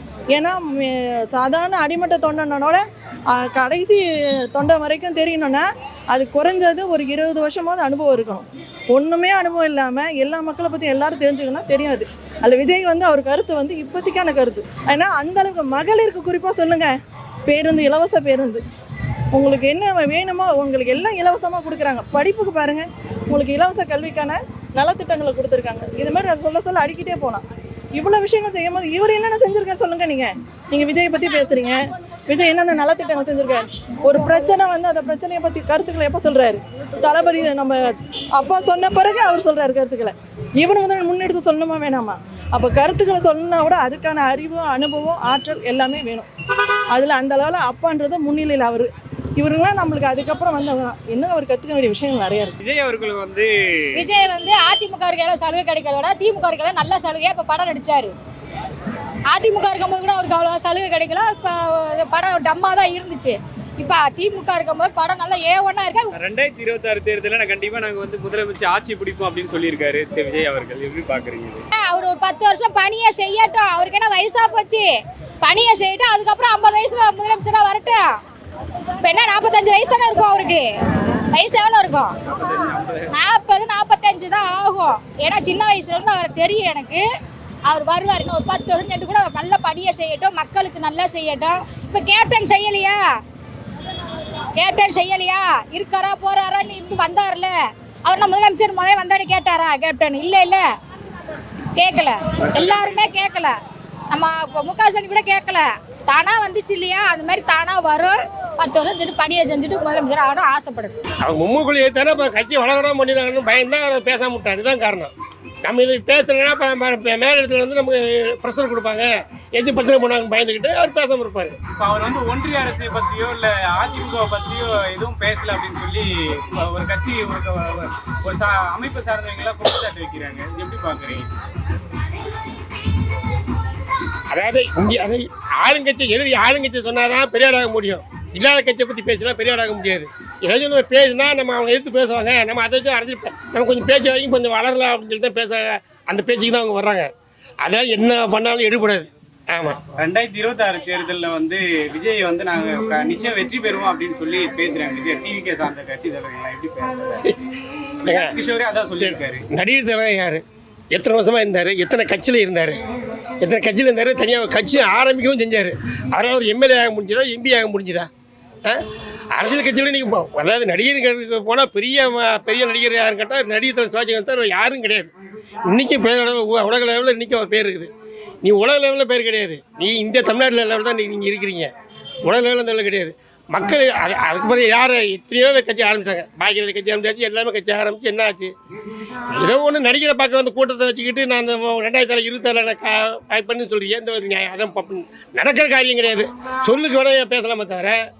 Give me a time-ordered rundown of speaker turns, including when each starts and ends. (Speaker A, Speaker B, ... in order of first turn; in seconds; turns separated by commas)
Speaker A: 0.3-16.9, Speaker A: 17.5-18.6, Speaker A: 19.3-27.4, Speaker A: 27.9-37.8, Speaker A: 38.4-46.3, Speaker A: 46.9-52.5, Speaker B: 52.6-54.1, Speaker C: 54.0-58.1, Speaker C: 59.3-66.1, Speaker B: 66.1-71.6, Speaker C: 71.7-74.9, Speaker C: 75.4-78.1, Speaker C: 79.0-80.6, Speaker C: 81.3-82.1, Speaker B: 82.3-83.1, Speaker C: 83.1-87.0, Speaker C: 87.7-93.0, Speaker C: 94.6-97.5, Speaker C: 98.0-100.6, Speaker C: 101.8-103.5, Speaker C: 104.1-111.0, Speaker D: 111.2-115.1, Speaker D: 115.6-121.5, Speaker B: 121.7-131.3, Speaker D: 134.3-149.8, Speaker B: 150.0-157.3, Speaker B: 158.0-159.4, Speaker D: 158.1-158.3, Speaker D: 159.0-162.8, Speaker D: 163.4-168.1, Speaker D: 169.3-175.1, Speaker D: 175.7-177.9, Speaker D: 178.4-181.7, Speaker D: 182.2-188.5, Speaker D: 189.3-198.0